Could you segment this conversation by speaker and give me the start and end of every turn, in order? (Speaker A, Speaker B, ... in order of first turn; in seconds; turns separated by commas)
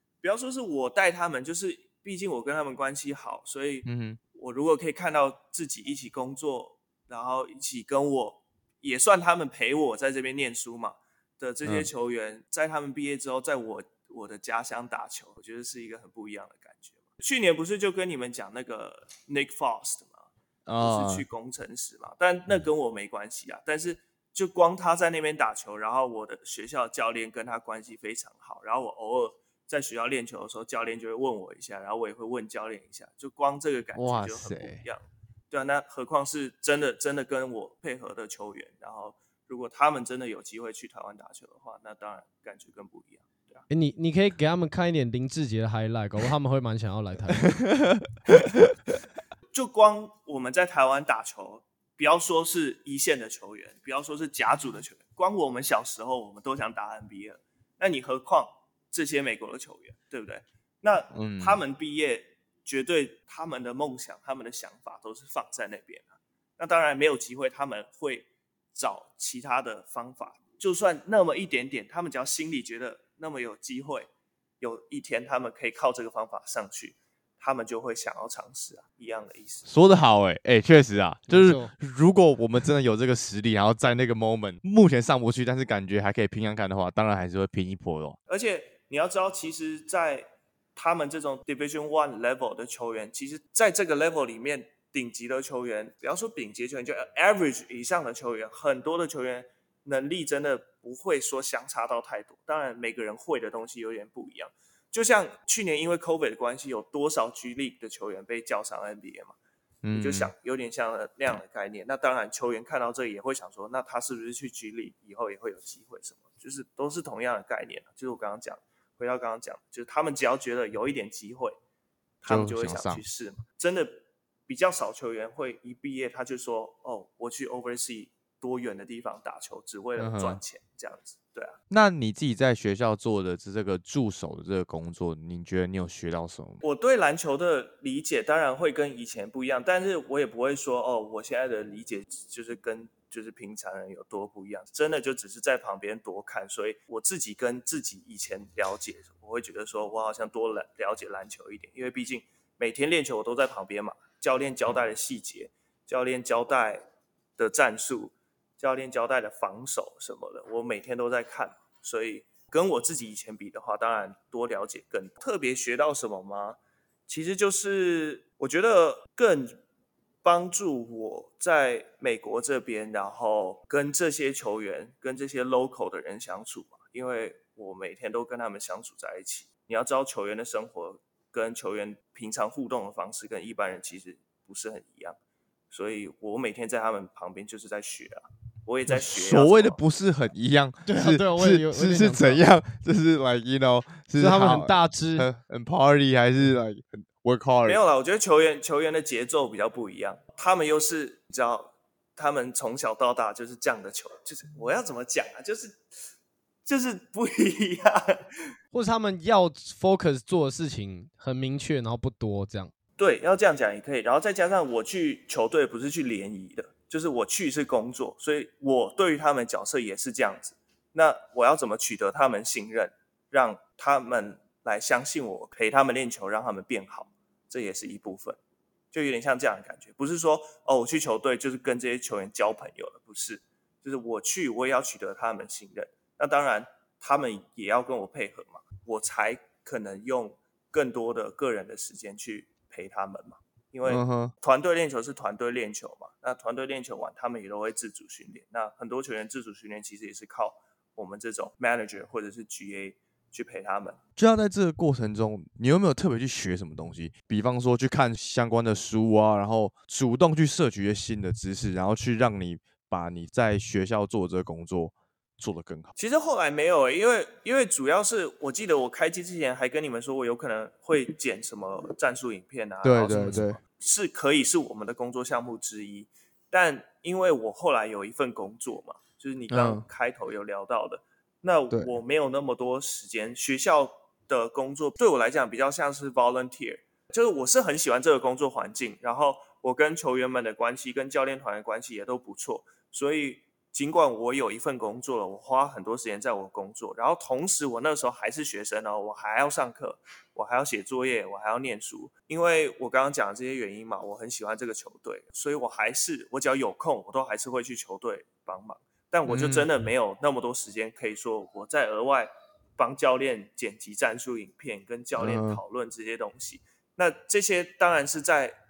Speaker A: 0.2-43.6, Speaker B: 3.9-4.2, Speaker B: 11.6-11.9, Speaker B: 20.7-21.3, Speaker B: 34.0-34.9, Speaker C: 43.7-47.5, Speaker B: 47.6-48.7, Speaker A: 49.5-74.1, Speaker B: 61.1-61.6, Speaker A: 74.6-79.7, Speaker B: 79.7-88.2, Speaker C: 81.3-81.7, Speaker A: 88.3-109.3, Speaker B: 109.8-110.3, Speaker A: 109.9-121.6, Speaker A: 122.2-131.6, Speaker B: 122.3-123.0, Speaker B: 130.0-130.4, Speaker B: 131.7-136.6, Speaker A: 136.6-156.8, Speaker A: 157.4-169.6, Speaker A: 170.2-185.2, Speaker A: 185.7-189.8, Speaker B: 188.9-197.8, Speaker C: 190.8-192.4, Speaker C: 194.2-195.3, Speaker A: 197.7-205.8, Speaker A: 206.7-208.4, Speaker C: 208.7-212.7, Speaker A: 213.0-228.4, Speaker A: 228.9-254.0, Speaker B: 243.8-244.3, Speaker B: 254.2-265.9, Speaker A: 266.0-318.6, Speaker B: 272.8-273.6, Speaker B: 279.5-279.9, Speaker B: 309.3-309.7, Speaker B: 315.2-315.6